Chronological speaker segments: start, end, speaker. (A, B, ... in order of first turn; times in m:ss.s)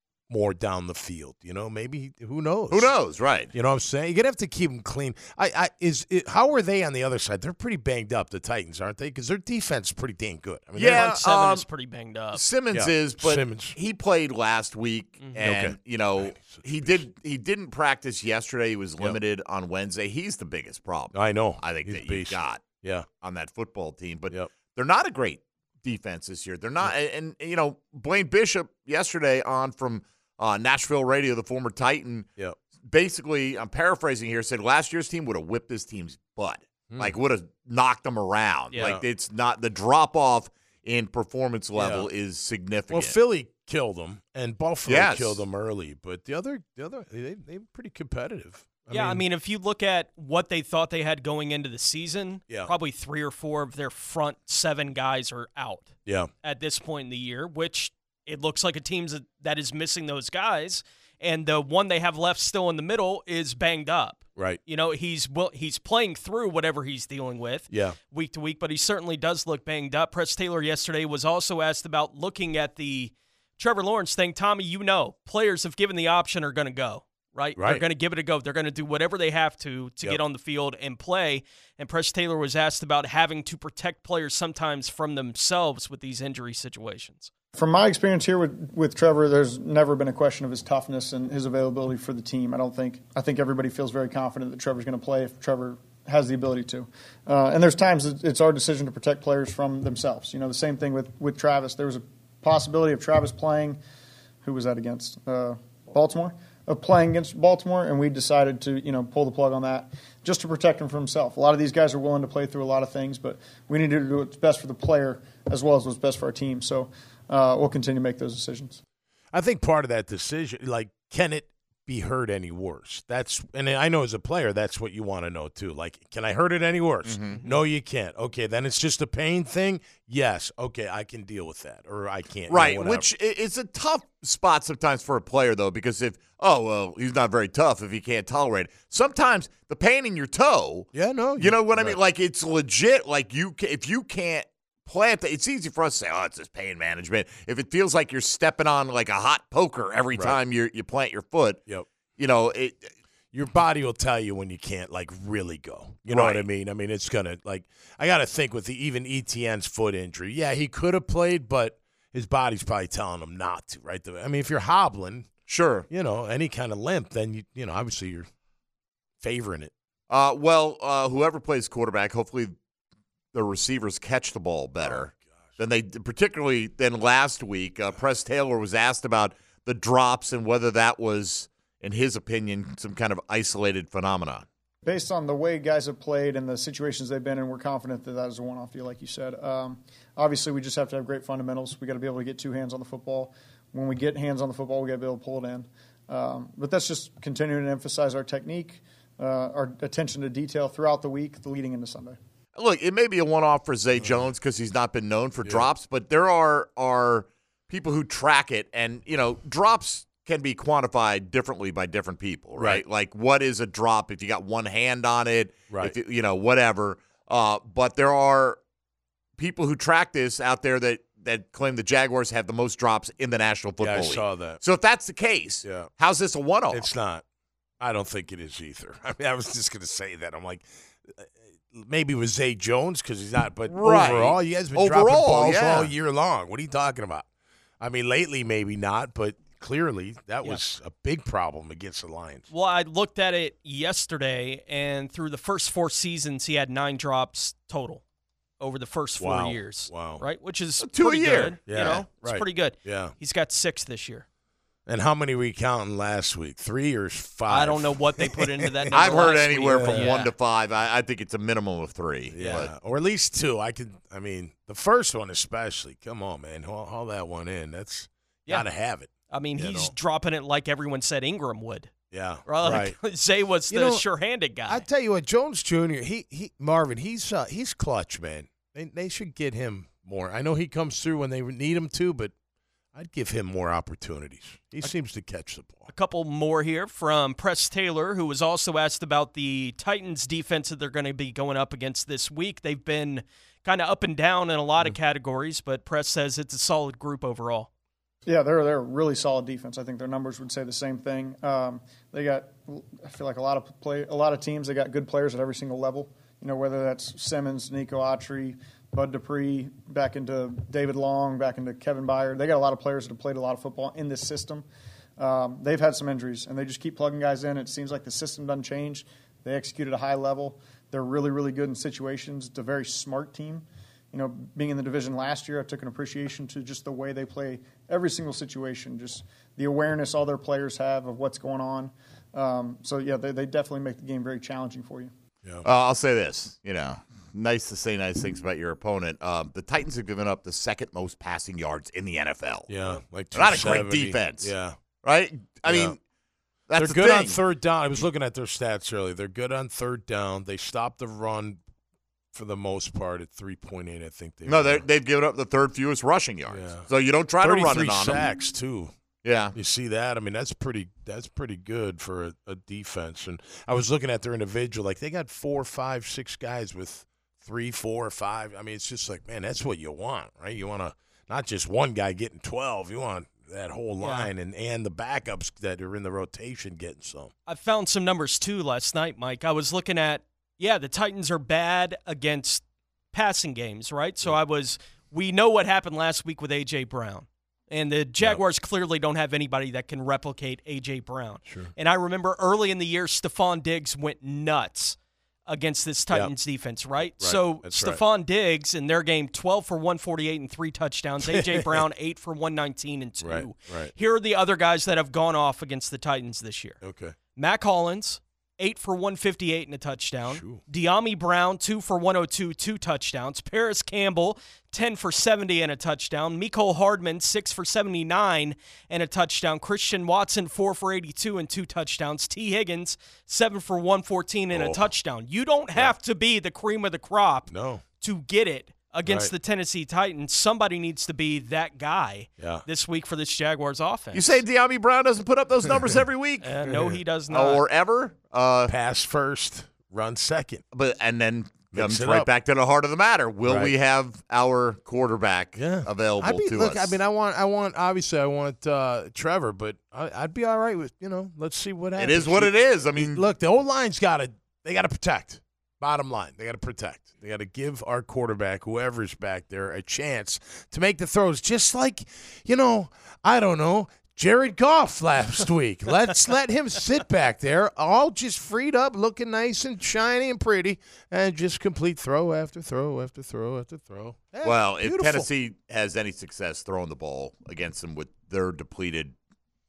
0:00.3-0:02.9 A
0:02.7-0:03.5 B
0:03.5-0:11.1 A
0:10.8-0:11.6 B
0:10.8-0:12.4 C
0:12.3-0:22.6 B
0:12.7-0:13.8 A
0:15.4-0:17.0 A
0:21.1-0:23.1 A
0:23.2-0:32.3 B
0:32.9-0:43.2 B
0:36.9-0:37.2 A
0:38.8-0:39.0 A
0:41.8-0:42.1 A
0:42.9-0:49.2 A
0:44.9-0:45.4 B
0:48.9-1:27.3 C
1:07.7-1:08.0 A
1:17.6-1:17.8 A
1:27.6-1:43.8 D
1:44.4-1:58.8 D
1:59.3-2:13.1 A
2:07.0-2:07.4 B
2:12.5-2:31.6 B
2:20.9-2:22.0 A
2:32.2-2:32.9 B
2:33.3-2:45.3 A
2:36.1-2:36.5 B
2:45.5-2:45.9 B
2:45.9-2:48.3 A
2:49.2-2:49.7 A
2:50.1-2:52.5 B
2:53.3-3:04.5 B
2:54.8-2:55.2 A
3:04.8-3:22.2 D
3:22.6-3:38.6 B
3:32.6-3:32.8 A
3:35.7-3:36.0 A
3:39.4-3:46.9 B
3:43.8-3:44.6 A
3:45.6-3:45.9 A
3:46.7-3:47.2 A
3:47.8-3:57.3 A
3:53.7-3:55.9 B
3:57.8-4:02.5 A
4:02.5-4:08.0 C
4:08.6-4:14.2 C
4:09.2-4:10.2 A
4:10.8-4:11.6 B
4:11.7-4:13.1 A
4:14.9-4:20.1 A
4:17.5-4:20.3 C
4:18.9-4:22.7 B
4:22.3-4:29.9 A
4:29.3-4:31.9 C
4:32.1-4:33.0 A
4:32.5-4:34.8 C
4:33.7-4:34.1 A
4:34.7-4:42.3 A
4:43.0-4:45.9 A
4:45.9-4:57.7 C
4:58.3-5:14.6 D
5:15.2-5:35.1 D
5:35.6-5:42.7 B
5:42.7-5:44.8 A
5:43.3-5:46.0 B
5:45.6-5:46.0 A
5:46.7-5:47.4 B
5:46.8-5:51.6 A
5:52.3-5:54.8 A
5:54.5-5:58.3 B
5:56.5-5:56.9 A
5:57.4-5:58.9 A
5:59.2-5:59.6 B
5:59.5-6:17.3 A
6:14.0-6:14.3 C
6:17.5-6:35.0 C
6:31.4-6:31.7 A
6:35.5-6:46.8 C
6:37.2-6:38.0 A
6:41.2-6:41.8 A
6:43.2-6:43.9 A
6:46.8-6:47.2 A
6:47.4-7:07.5 C
6:50.3-6:50.6 A
7:04.5-7:04.9 A
7:07.5-7:07.8 A
7:08.0-7:14.4 C
7:09.1-7:09.3 A
7:12.4-7:12.6 A
7:14.1-7:16.5 B
7:16.4-7:17.6 C
7:16.7-7:17.0 A
7:17.3-7:18.7 B
7:18.7-7:20.6 A
7:20.7-7:27.0 B
7:21.7-7:22.3 A
7:23.4-7:23.7 A
7:25.6-7:55.3 A
7:32.0-7:33.2 B
7:54.4-7:59.2 B